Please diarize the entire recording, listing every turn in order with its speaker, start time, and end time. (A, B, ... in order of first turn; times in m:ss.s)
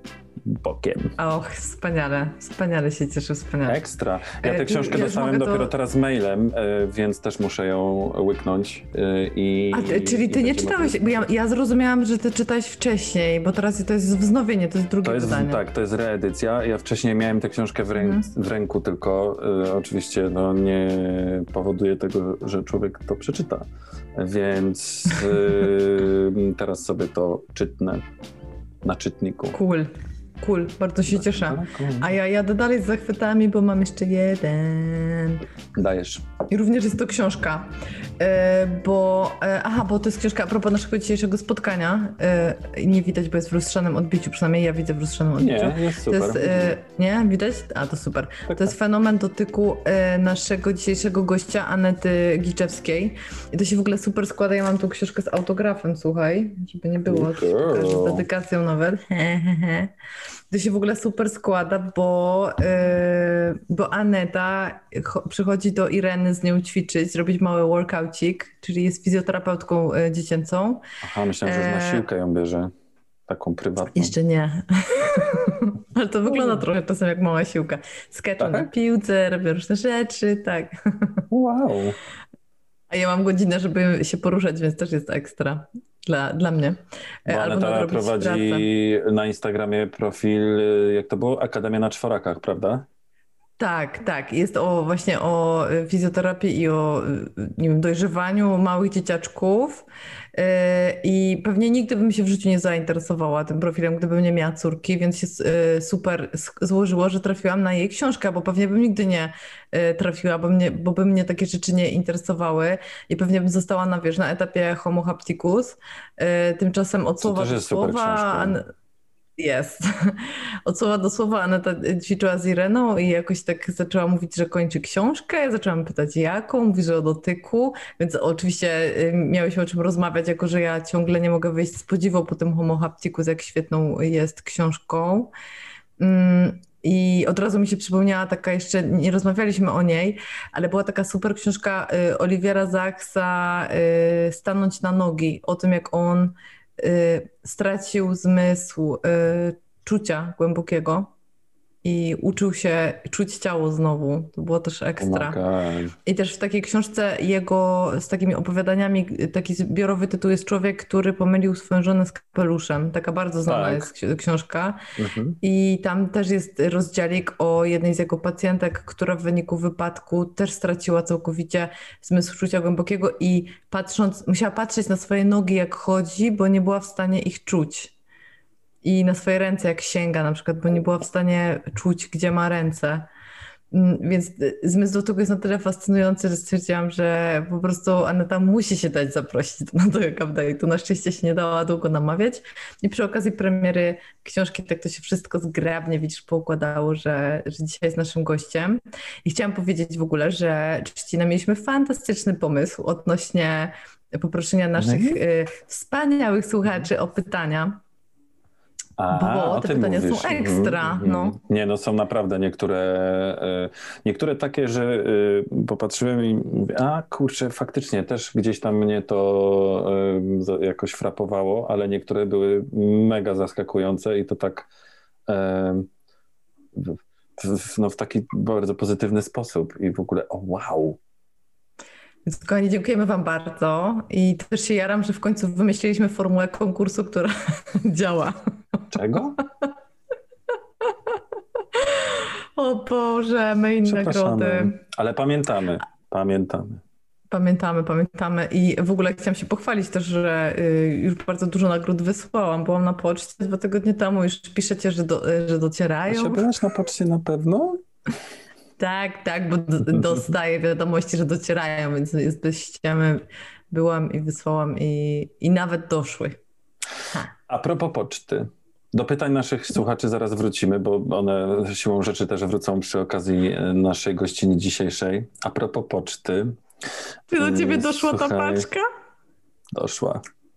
0:00.4-0:01.2 A
0:01.2-0:03.8 B
0:03.7-0:11.2 A
0:04.4-0:05.7 B
0:09.7-0:15.6 B
0:15.0-0:28.1 A
0:18.0-0:18.3 B
0:28.8-0:29.6 A
0:29.5-0:35.4 B
0:31.1-0:32.1 A
0:35.7-0:36.3 A
0:36.5-0:59.9 B
0:45.4-0:46.8 A
0:48.5-0:48.7 A
0:57.1-0:58.3 A
1:00.5-1:10.8 B
1:11.0-1:12.7 A
1:11.4-1:12.0 B
1:13.3-1:14.1 A
1:14.0-1:21.2 B
1:16.3-1:16.6 A
1:18.4-1:18.7 A
1:21.3-1:22.0 A
1:22.9-1:28.7 B
1:27.3-1:32.9 A
1:33.6-1:58.7 B
1:57.2-1:58.6 A
1:59.4-2:15.3 B
2:16.0-2:31.1 B
2:31.8-2:35.4 B
2:35.0-2:36.0 A
2:36.1-2:44.8 B
2:43.5-2:43.9 A
2:45.0-2:45.4 A
2:45.4-2:57.9 B
2:58.8-3:03.1 B
3:03.7-3:27.8 B
3:24.8-3:25.2 A
3:29.0-3:44.7 A
3:29.1-3:31.4 B
3:45.3-3:45.9 A
3:46.7-3:51.0 A
3:52.3-3:58.4 B
3:58.9-3:59.4 A
4:01.8-4:04.8 B
4:03.8-4:06.8 A
4:07.3-4:16.5 B
4:16.1-4:17.8 A
4:18.8-4:26.4 B
4:27.5-4:36.6 A
4:37.3-4:38.9 B
4:37.3-4:38.7 A
4:39.7-4:40.2 A